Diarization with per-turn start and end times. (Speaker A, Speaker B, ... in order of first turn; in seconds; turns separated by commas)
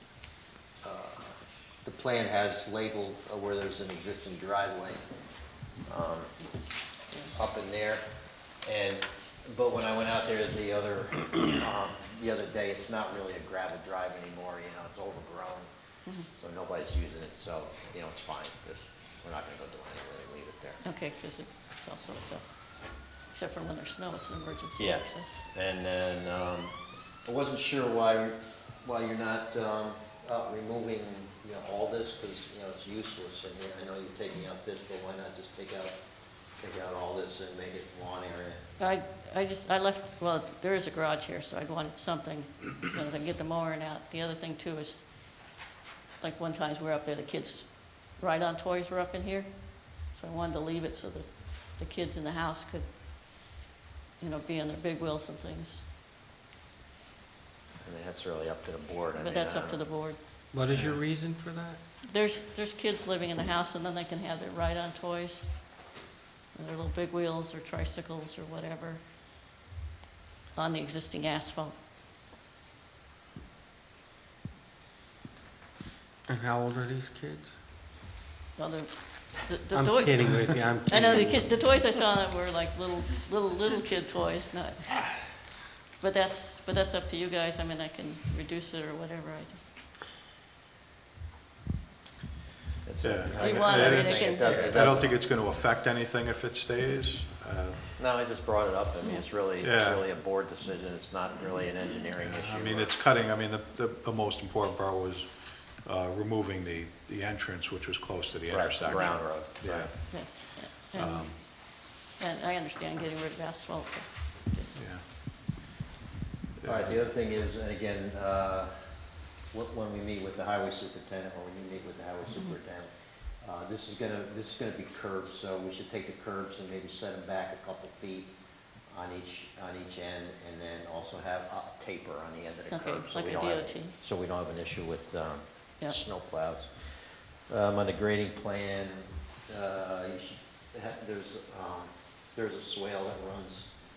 Speaker A: 0.8-5.0, Speaker A: 5.8-6.3, Speaker B: 6.4-7.3, Speaker A: 7.3-8.1, Speaker A: 8.6-15.7, Speaker A: 16.3-20.8, Speaker B: 20.8-25.5, Speaker A: 24.8-36.0, Speaker A: 36.6-38.6, Speaker B: 38.8-45.7, Speaker B: 46.2-53.5, Speaker B: 54.2-55.9, Speaker A: 57.8-59.8, Speaker B: 59.2-60.2, Speaker C: 60.5-61.8, Speaker D: 60.7-61.0, Speaker B: 62.0-66.0, Speaker B: 66.5-69.0, Speaker B: 70.5-71.8, Speaker C: 76.3-77.2, Speaker B: 78.6-89.8, Speaker C: 79.7-81.5, Speaker A: 92.8-95.2, Speaker D: 93.0-97.9, Speaker B: 93.4-94.5, Speaker A: 98.0-102.9, Speaker D: 99.6-100.1, Speaker D: 102.2-111.4, Speaker A: 108.5-109.9, Speaker B: 108.9-109.2, Speaker B: 110.1-114.9, Speaker D: 114.8-115.1, Speaker D: 116.6-117.0, Speaker A: 116.6-118.7, Speaker A: 119.5-128.3, Speaker A: 128.9-143.7, Speaker B: 132.7-133.9